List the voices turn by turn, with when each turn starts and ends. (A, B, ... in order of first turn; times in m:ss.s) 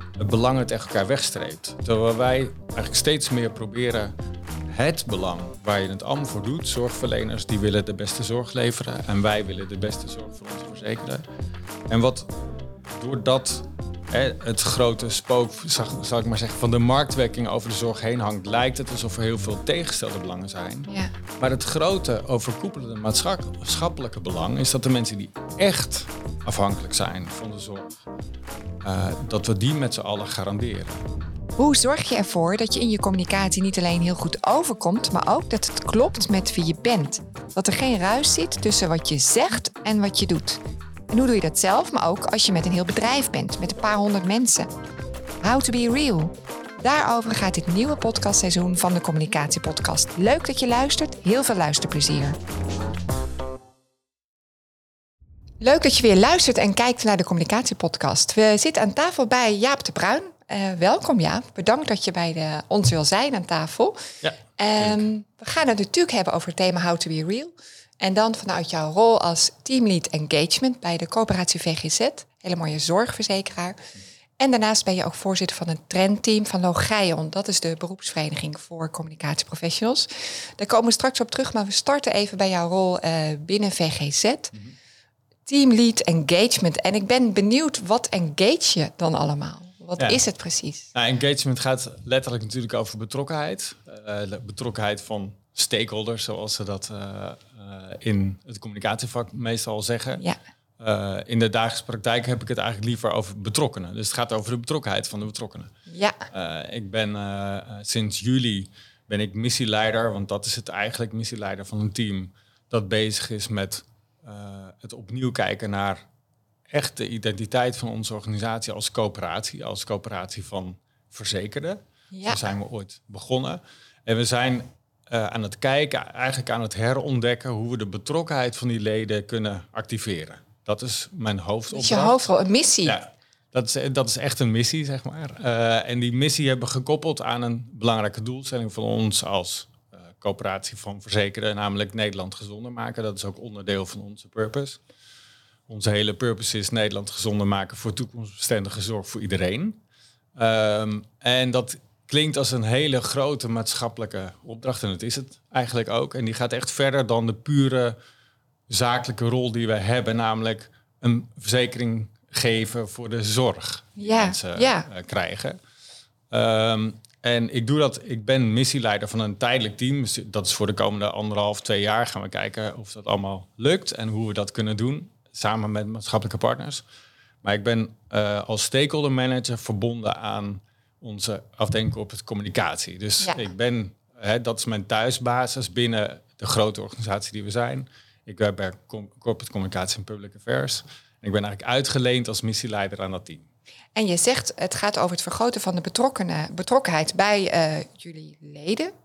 0:00.2-0:04.1 A
0:04.7-0:11.2 A
0:11.9-0:12.3 A
0:13.0-0:28.0 A
0:28.8-0:31.0 A
0:31.6-0:44.7 B
0:45.4-0:52.4 B
0:55.6-1:04.0 B
1:04.2-1:05.0 A
1:04.6-1:13.8 B
1:14.4-1:24.5 B
1:25.5-1:30.9 B
1:30.9-1:40.2 A
1:40.8-1:45.7 A
1:45.9-1:46.2 B
1:46.3-1:56.0 A
1:56.7-2:12.3 A
2:02.1-2:02.4 B
2:11.7-2:13.0 B
2:12.8-2:24.8 A
2:25.7-2:29.8 A
2:30.4-2:38.0 A
2:38.7-2:45.6 A
2:44.0-2:44.9 B
2:46.3-2:56.8 A
2:57.4-3:13.5 A
3:14.0-3:18.9 B